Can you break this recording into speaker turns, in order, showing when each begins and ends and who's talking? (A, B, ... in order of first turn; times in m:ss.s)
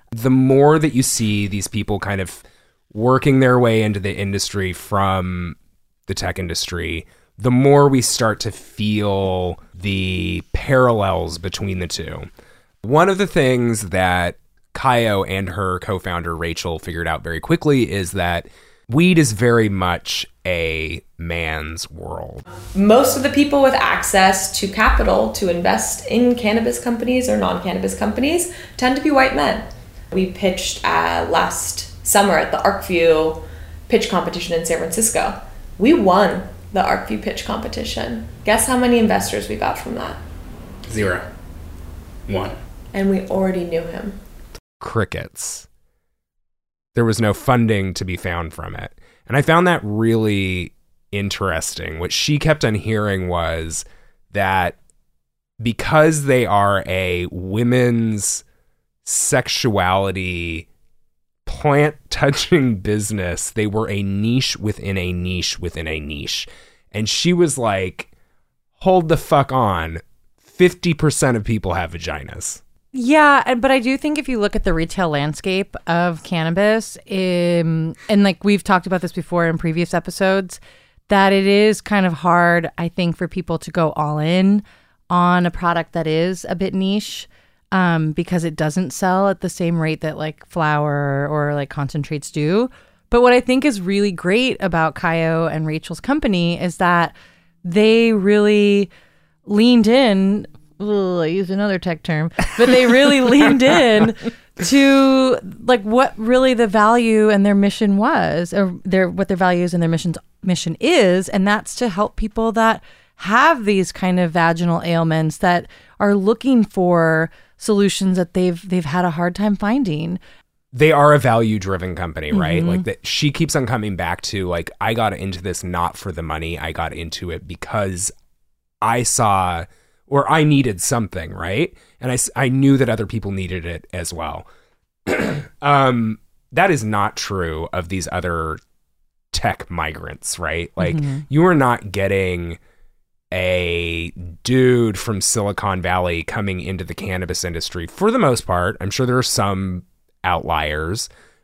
0:00.1-0:12.3 A
0:12.8-0:22.4 A
0:22.8-0:40.2 B
0:40.9-0:41.2 A
0:42.3-0:42.6 A
0:42.9-0:44.2 B
0:44.8-0:45.7 A
0:47.0-0:54.8 A
0:55.6-0:58.4 A
0:59.0-1:00.7 A
1:01.5-1:08.1 A
1:08.8-1:12.6 A
1:12.9-1:38.9 C
1:39.5-2:00.2 C
2:00.7-2:08.1 A
2:02.3-2:02.8 C
2:08.8-2:14.5 A
2:15.1-2:18.6 A
2:19.3-2:22.6 A
2:20.8-2:21.2 C
2:23.3-2:31.1 A